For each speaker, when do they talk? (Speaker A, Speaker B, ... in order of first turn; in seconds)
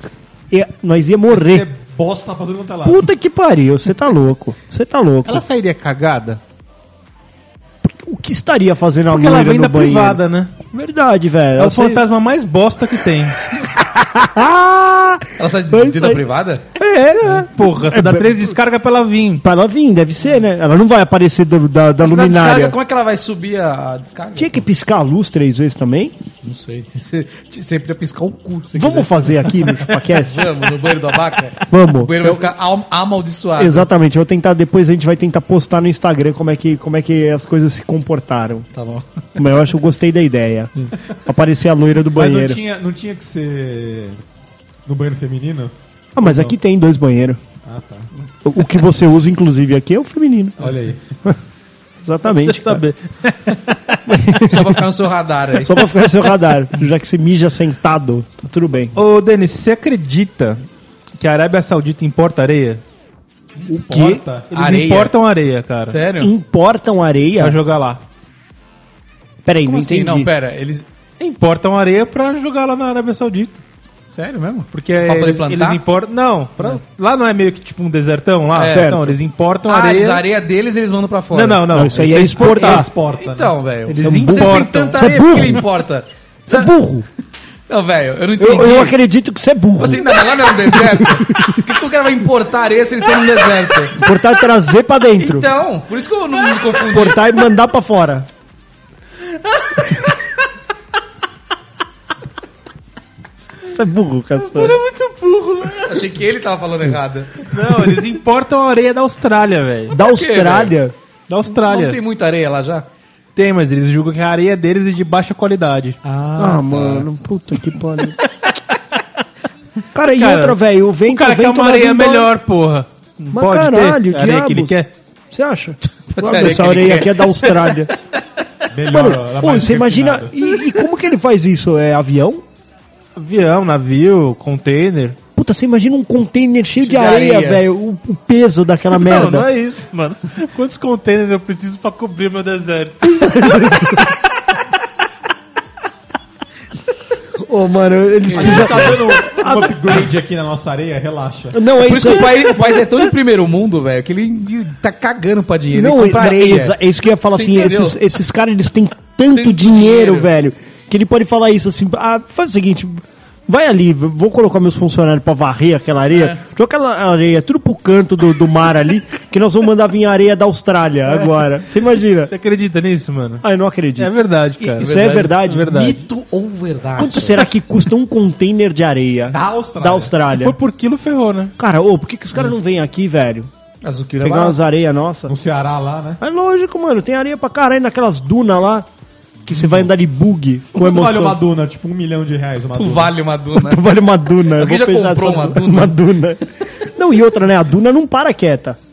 Speaker A: 0.5-1.7, 2.8-5.5, 7.8-12.0, 13.5-18.6, 19.4-22.8, 24.4-26.1, 28.8-30.5, 31.6-32.5, 33.6-38.7, 39.4-42.6, 46.1-47.4, 48.4-50.7, 52.0-52.8, 54.0-54.9, 55.6-59.0, 63.7-64.2, 66.2-67.6, 69.5-70.3, 78.6-79.2, 81.7-82.9, 84.0-85.6, 86.5-87.1, 88.4-91.7, 93.9-95.5, 96.7-98.3, 103.6-104.8, 109.9-111.0, 116.4-118.2, 119.9-122.3, 123.3-124.8, 125.3-127.9, 128.9-132.4, 135.3-139.5, 143.0-144.2, 147.4-150.0, 151.5-153.1, 155.7-172.3, 173.4-175.9, 177.0-180.6, 181.6-183.5, 184.2-185.3, 186.2-188.9, 189.5-191.4, 193.6-198.8
Speaker B: 1.3-3.0, 42.1-44.2, 44.9-45.7, 47.6-48.1, 50.6-51.0, 63.7-64.5, 82.2-83.5, 128.7-130.3, 148.3-151.6, 179.3-180.2, 185.3-186.2, 190.7-193.1
Speaker C: 5.2-6.4, 9.1-10.5, 11.6-13.4, 17.2-19.4, 52.2-54.0, 59.0-60.6, 61.2-62.8, 64.5-66.0, 67.4-68.0, 71.2-73.6, 74.7-80.2, 81.3-82.9, 83.9-85.1, 104.4-106.1, 107.5-110.0, 111.3-112.0, 113.3-116.0, 120.1-124.9, 133.2-135.2, 138.9-144.0, 172.2-173.4, 174.0-174.9, 175.4-176.0, 180.2-181.5
Speaker D: 15.4-16.6, 22.0-24.6, 26.4-33.9, 38.7-39.2, 54.4-55.8, 64.5-65.1, 65.8-66.3, 69.6-70.9, 74.1-75.8, 78.5-79.0, 79.7-81.7, 83.1-86.7, 87.7-89.0, 89.8-94.0, 95.2-97.2, 105.8-107.5, 110.0-110.8, 111.5-112.9, 116.0-117.1, 126.1-127.7, 136.8-137.6, 148.2-148.9, 151.8-156.8, 157.3-158.0, 159.3-160.3, 166.1-166.4, 174.8-177.4, 183.8-184.6, 192.8-193.8, 194.5-195.9